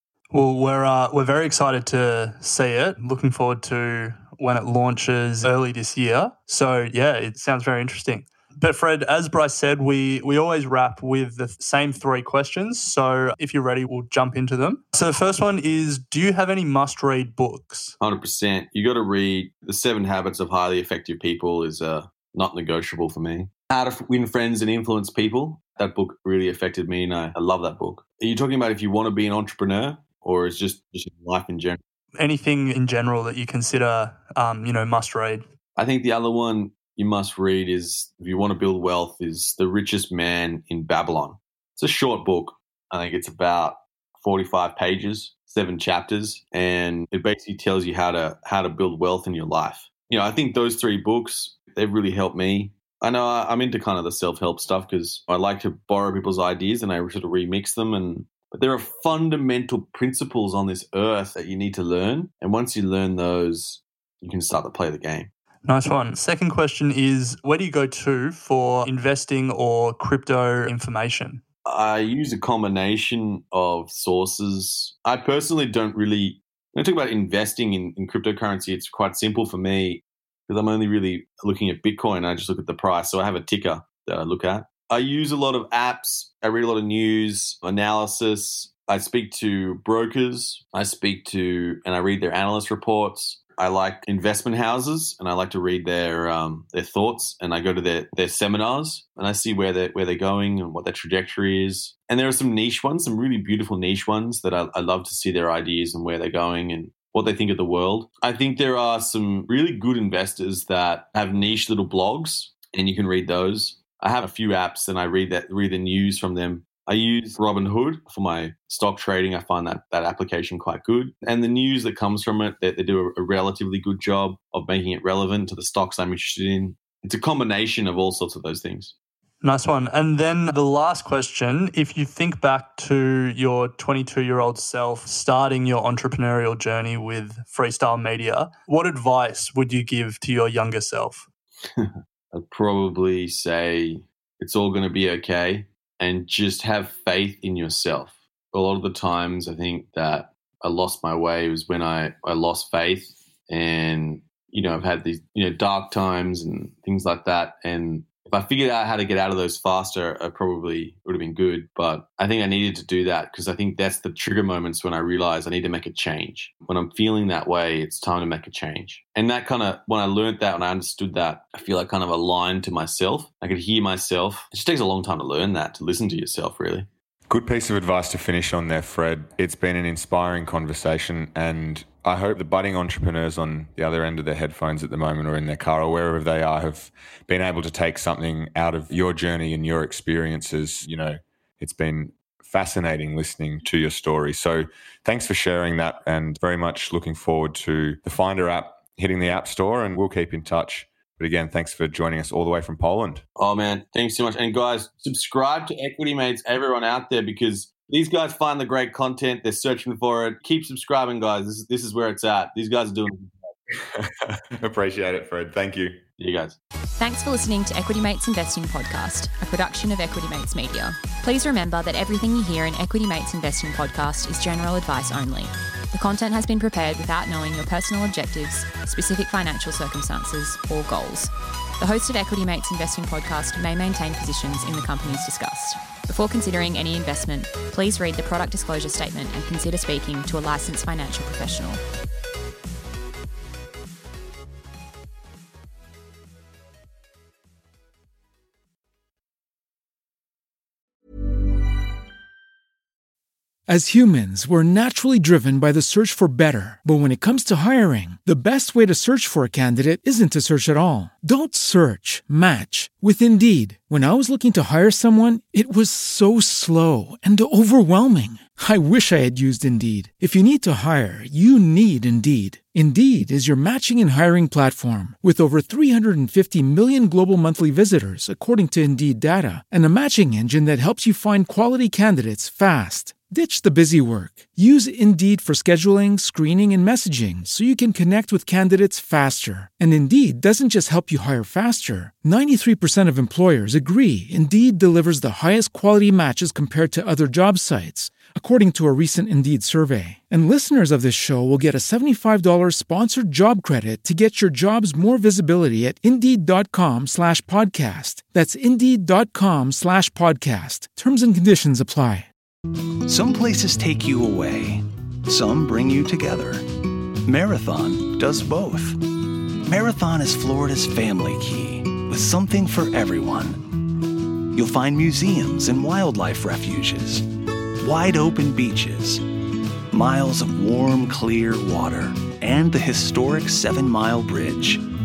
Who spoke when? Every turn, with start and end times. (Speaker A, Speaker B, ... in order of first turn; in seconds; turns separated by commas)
Speaker A: 0.3-17.9, Speaker B: 18.0-31.8, Speaker A: 32.2-35.4, Speaker B: 35.8-65.3, Speaker A: 65.6-71.4, Speaker B: 71.6-128.9, Speaker A: 129.4-141.3, Speaker B: 141.7-176.8, Speaker C: 177.3-203.2, Speaker B: 203.4-213.3, Speaker C: 213.8-216.0, Speaker B: 216.2-216.6, Speaker D: 217.0-241.8, Speaker E: 253.7-312.3, Speaker F: 313.1-319.0, Speaker F: 319.6-323.7, Speaker F: 324.5-327.2, Speaker F: 327.8-329.2, Speaker F: 329.9-334.8